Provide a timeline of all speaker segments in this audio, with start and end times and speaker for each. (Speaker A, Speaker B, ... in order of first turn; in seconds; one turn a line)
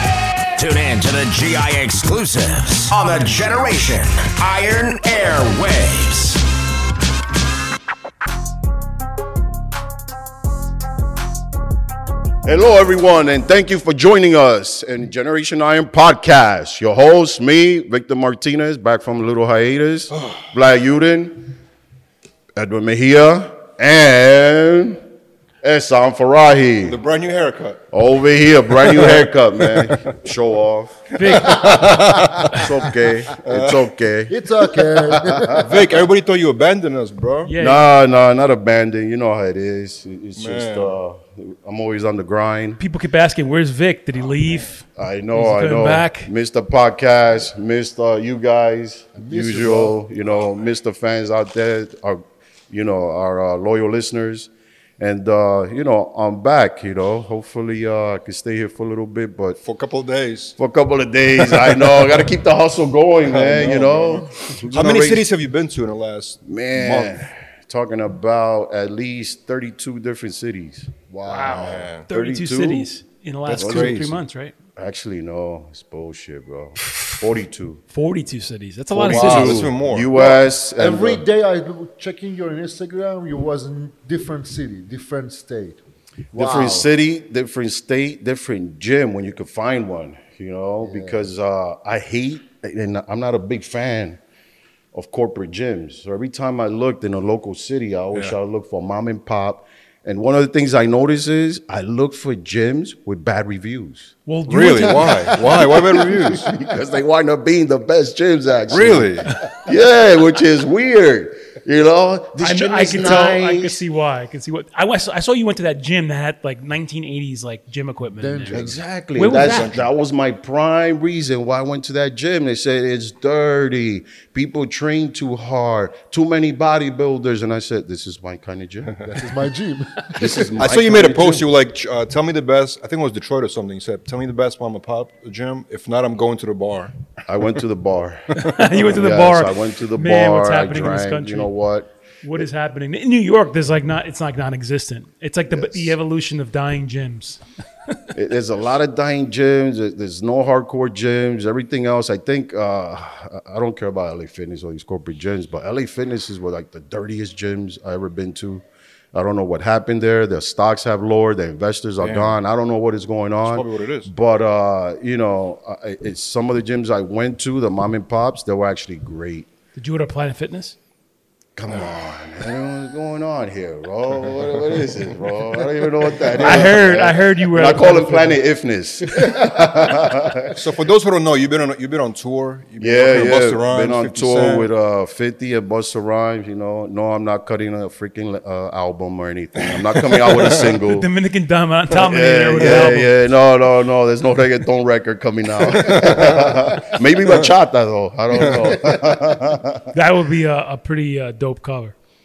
Speaker A: 0.6-6.4
Speaker B: 12.4-21.5
Speaker C: 20.1-20.5
Speaker B: 22.5-25.0
Speaker B: 25.6-27.0
Speaker C: 26.8-27.8
Speaker B: 27.9-35.7
Speaker D: 31.1-31.6
Speaker C: 31.6-32.5
Speaker C: 33.4-33.9
Speaker E: 34.3-36.0
Speaker C: 35.5-37.5
Speaker D: 37.5-37.8
Speaker B: 37.6-42.8
Speaker C: 40.4-40.9
Speaker D: 42.8-46.3
Speaker B: 44.9-59.6
Speaker E: 49.1-50.0
Speaker C: 59.6-60.6
Speaker B: 60.6-65.3
Speaker C: 61.4-62.2
Speaker C: 63.2-67.2
Speaker B: 66.4-72.9
Speaker E: 71.1-71.9
Speaker D: 71.2-74.5
Speaker C: 71.5-72.0
Speaker C: 73.5-74.2
Speaker B: 73.5-74.0
Speaker B: 74.8-77.8
Speaker D: 77.9-79.7
Speaker B: 78.9-81.2
Speaker C: 79.0-80.1
Speaker E: 80.1-85.8
Speaker B: 86.3-94.2
Speaker E: 86.3-86.9
Speaker E: 90.8-91.3
Speaker B: 94.9-104.1
Speaker D: 104.2-105.3
Speaker C: 104.5-106.5
Speaker B: 105.3-113.8
Speaker E: 105.5-106.7
Speaker C: 108.7-109.3
Speaker D: 112.4-119.7
Speaker E: 112.9-113.4
Speaker E: 118.2-118.8
Speaker B: 118.5-129.0
Speaker C: 119.3-119.8
Speaker E: 129.0-130.5
Speaker B: 130.2-131.5
Speaker C: 130.6-136.9
Speaker B: 137.2-142.4
Speaker D: 138.3-141.5
Speaker D: 142.2-148.0
Speaker B: 145.5-146.0
Speaker B: 148.1-169.5
Speaker C: 162.0-162.4
Speaker C: 163.4-164.1
Speaker D: 169.8-170.8
Speaker B: 171.6-180.6
Speaker D: 176.4-178.4
Speaker C: 180.5-184.7
Speaker B: 182.8-191.1
Speaker C: 190.0-190.6
Speaker D: 190.8-193.2
Speaker B: 191.9-199.9
Speaker C: 195.7-196.6
Speaker C: 198.4-198.7
Speaker D: 199.9-201.9